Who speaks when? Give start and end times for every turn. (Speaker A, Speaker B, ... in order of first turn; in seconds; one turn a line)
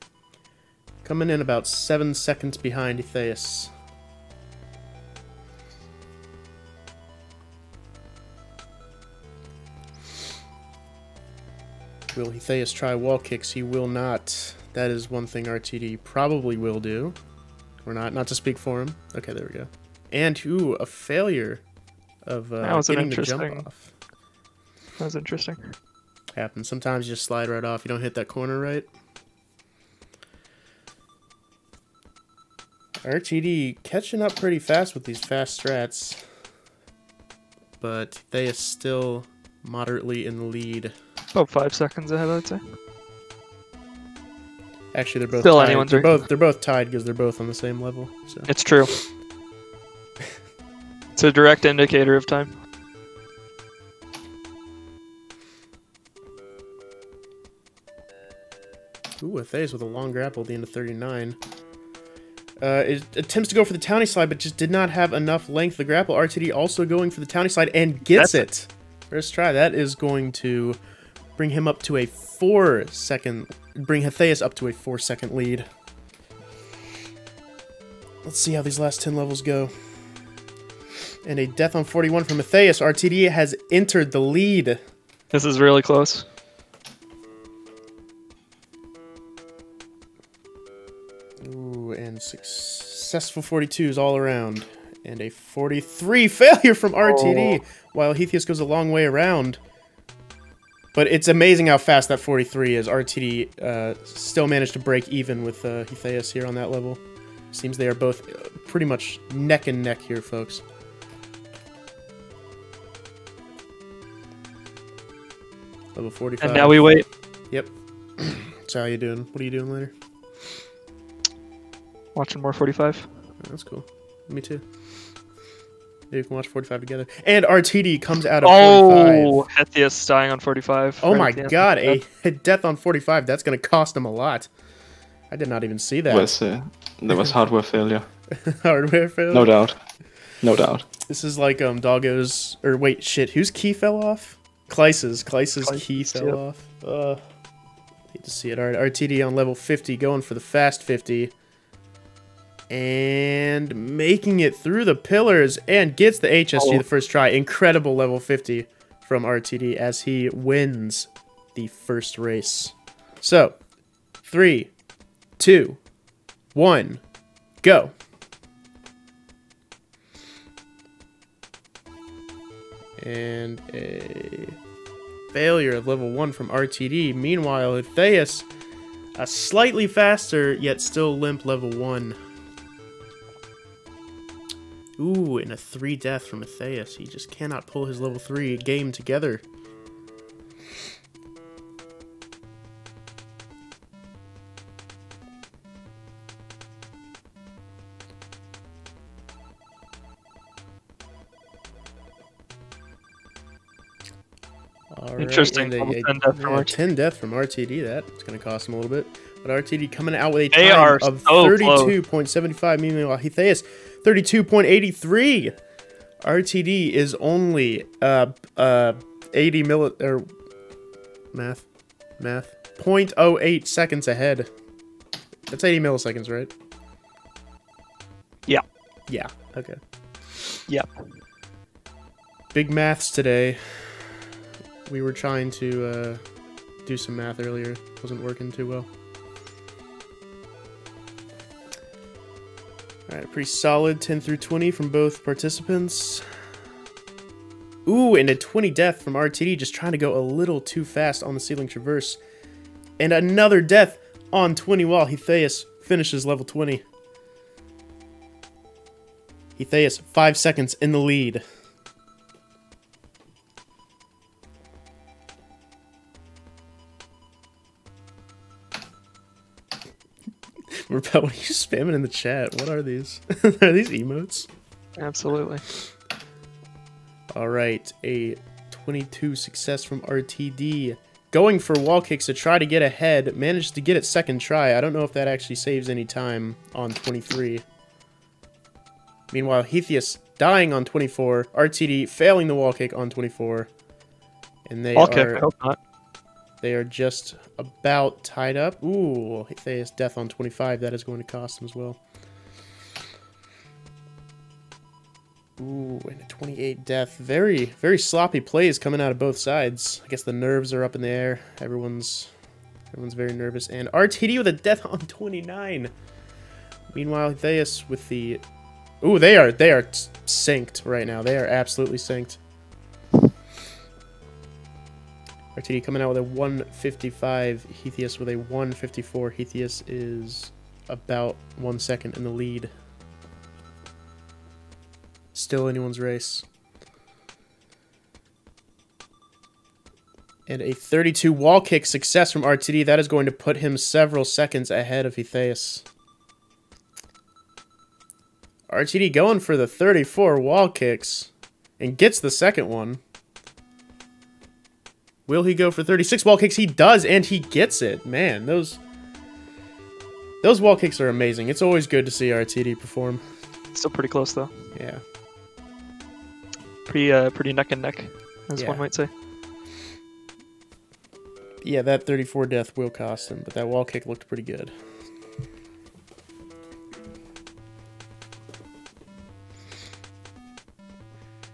Speaker A: 1.0-3.7
Speaker A: 12.1-17.1
Speaker A: 17.8-21.6
Speaker A: 22.2-23.9
Speaker B: 22.6-23.7
Speaker B: 25.0-25.7
Speaker A: 26.4-28.9
Speaker A: 33.0-36.2
Speaker A: 37.8-40.9
Speaker B: 41.3-42.7
Speaker A: 44.9-49.1
Speaker B: 45.4-46.2
Speaker B: 48.5-48.9
Speaker B: 51.1-52.6
Speaker A: 59.2-61.4
Speaker A: 62.6-70.8
Speaker B: 68.1-68.5
Speaker A: 71.4-75.7
Speaker A: 78.2-79.7
Speaker A: 81.2-84.8
Speaker B: 85.3-86.2
Speaker A: 91.4-99.6
Speaker B: 97.0-97.6
Speaker A: 100.9-107.0
Speaker A: 107.5-110.6
Speaker A: 115.9-119.9
Speaker B: 116.4-117.0
Speaker B: 122.1-123.1
Speaker A: 123.4-124.6
Speaker A: 126.1-129.4
Speaker B: 128.4-132.0
Speaker A: 131.0-134.5
Speaker A: 135.3-136.3
Speaker C: 136.1-138.1
Speaker A: 138.4-139.5
Speaker C: 139.3-139.8
Speaker C: 140.4-140.8
Speaker A: 141.1-147.2
Speaker B: 145.7-146.4
Speaker A: 148.1-151.3
Speaker A: 152.7-163.6
Speaker B: 156.6-156.8
Speaker A: 164.2-164.7
Speaker A: 165.4-165.8
Speaker A: 166.5-167.0
Speaker A: 167.6-167.9
Speaker A: 173.0-174.5
Speaker A: 175.3-178.4
Speaker A: 179.2-182.2
Speaker A: 185.0-189.4
Speaker A: 204.9-215.5
Speaker B: 205.2-206.7
Speaker B: 210.5-211.9
Speaker A: 216.2-220.3
Speaker A: 221.3-221.7
Speaker A: 222.2-224.5
Speaker A: 225.5-226.5
Speaker A: 229.1-229.8
Speaker B: 230.7-231.1
Speaker A: 232.5-234.1
Speaker A: 234.8-236.2
Speaker A: 236.8-238.9
Speaker A: 243.1-246.2
Speaker A: 247.8-252.2
Speaker A: 253.0-256.8
Speaker A: 259.6-261.4
Speaker A: 270.9-274.5
Speaker B: 275.0-275.6
Speaker A: 277.3-287.6
Speaker A: 289.3-293.7
Speaker A: 294.6-295.5
Speaker B: 294.9-295.8
Speaker A: 296.6-302.0
Speaker A: 305.6-312.3
Speaker A: 312.9-315.9
Speaker A: 316.9-318.4
Speaker A: 319.0-322.4
Speaker A: 325.6-332.7
Speaker A: 335.3-336.4
Speaker A: 340.5-345.8
Speaker A: 348.7-353.0
Speaker A: 355.3-358.8
Speaker A: 360.4-363.2
Speaker B: 363.7-364.6
Speaker A: 364.7-365.0
Speaker B: 366.8-369.1
Speaker A: 368.5-368.9
Speaker A: 371.6-374.7